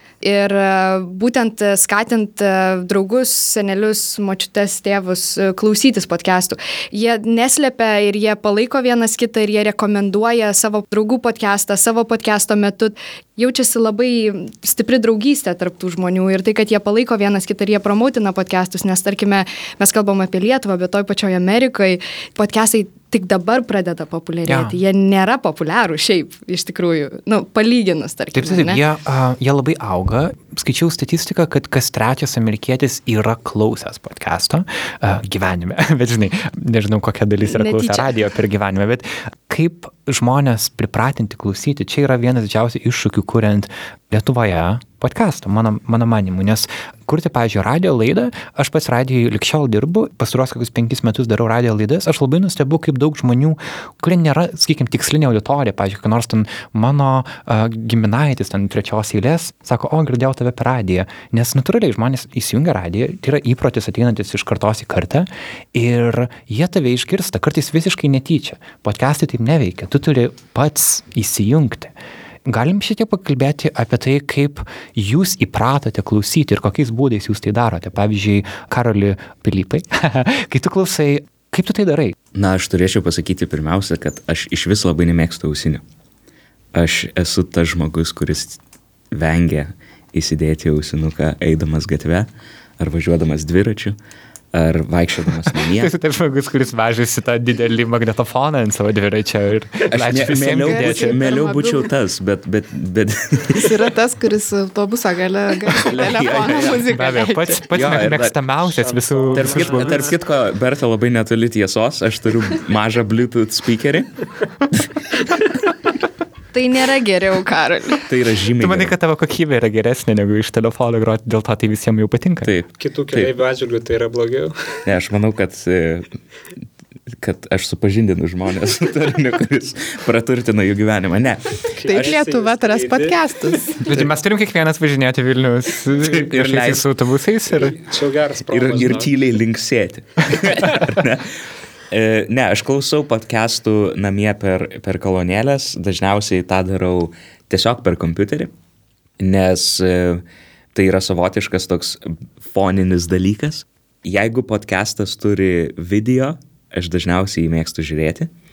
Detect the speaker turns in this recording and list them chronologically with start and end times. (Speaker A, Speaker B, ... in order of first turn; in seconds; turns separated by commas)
Speaker A: 0.2-28.8, Speaker B: 24.4-24.8, Speaker B: 28.3-71.9, Speaker A: 37.4-38.2, Speaker B: 72.5-82.1, Speaker C: 82.3-85.8, Speaker C: 86.7-88.6, Speaker C: 89.1-94.0, Speaker C: 94.5-95.9, Speaker B: 95.6-101.2, Speaker C: 99.9-103.7, Speaker D: 100.6-101.9, Speaker D: 103.5-107.6, Speaker C: 105.8-108.5, Speaker B: 106.9-110.0, Speaker E: 108.8-110.1, Speaker C: 109.3-114.8, Speaker A: 116.5-118.0, Speaker C: 118.0-118.9, Speaker B: 118.5-122.5, Speaker C: 122.4-123.3, Speaker E: 122.8-124.8, Speaker C: 124.8-126.1, Speaker C: 127.2-131.7, Speaker E: 131.7-134.0, Speaker D: 131.8-133.8, Speaker B: 133.8-137.8, Speaker C: 135.9-136.8, Speaker E: 137.6-139.1, Speaker C: 138.5-141.3, Speaker C: 141.9-148.5, Speaker C: 149.2-150.2, Speaker C: 150.7-158.3